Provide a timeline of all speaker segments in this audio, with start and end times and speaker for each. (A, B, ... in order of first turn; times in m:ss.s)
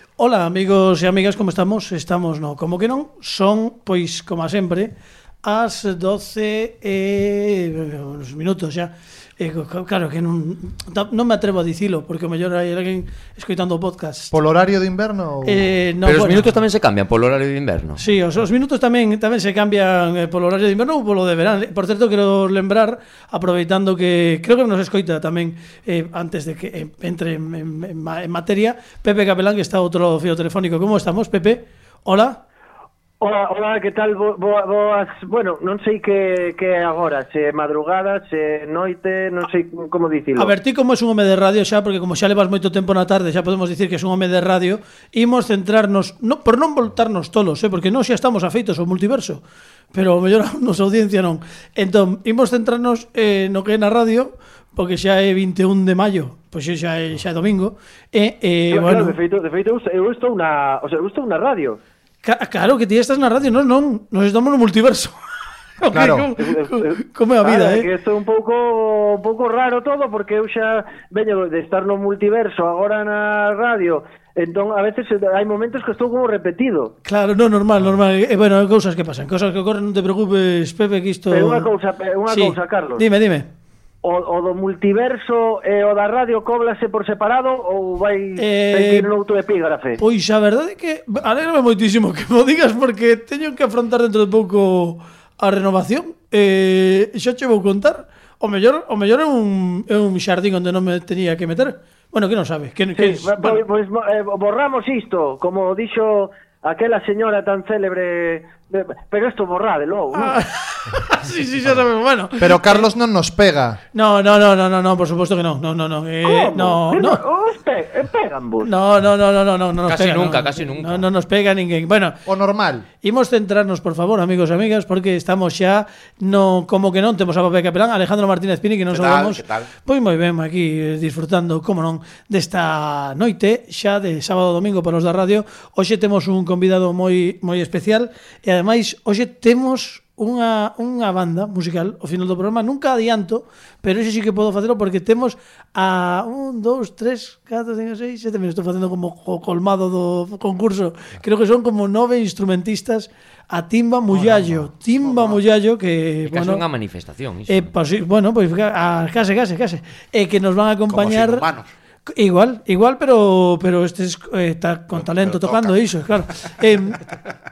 0:00.2-0:04.9 A
0:05.4-0:14.3 A
0:14.3-0:15.7 B
0:15.4-0:16.5 A
0:16.0-0:18.0 C
0:18.0-0:32.4 A
0:33.2-0:40.5 D
0:40.4-0:59.2 A
0:58.7-1:01.8 D
1:02.2-1:05.2 A
1:05.8-1:07.9 A
1:05.9-1:06.3 B
1:06.4-1:16.9 D
1:17.0-1:21.7 A
1:21.3-1:23.0 D
1:22.3-1:23.5 A
1:24.0-1:30.0 D
1:28.4-1:29.1 A
1:30.0-1:43.6 A
1:43.0-1:50.4 D
1:50.2-1:52.9 A
1:52.4-1:53.8 B
1:53.9-1:57.2 A
1:56.2-1:58.7 D
1:58.6-2:02.2 A
1:59.8-2:01.1 C
2:02.3-2:02.9 B
2:03.0-2:36.6 A
2:08.9-2:09.3 E
2:34.1-2:35.4 B
2:36.3-2:37.7 C
2:37.5-2:41.5 A
2:40.9-2:41.7 E
2:42.1-2:47.1 A
2:45.1-2:45.7 E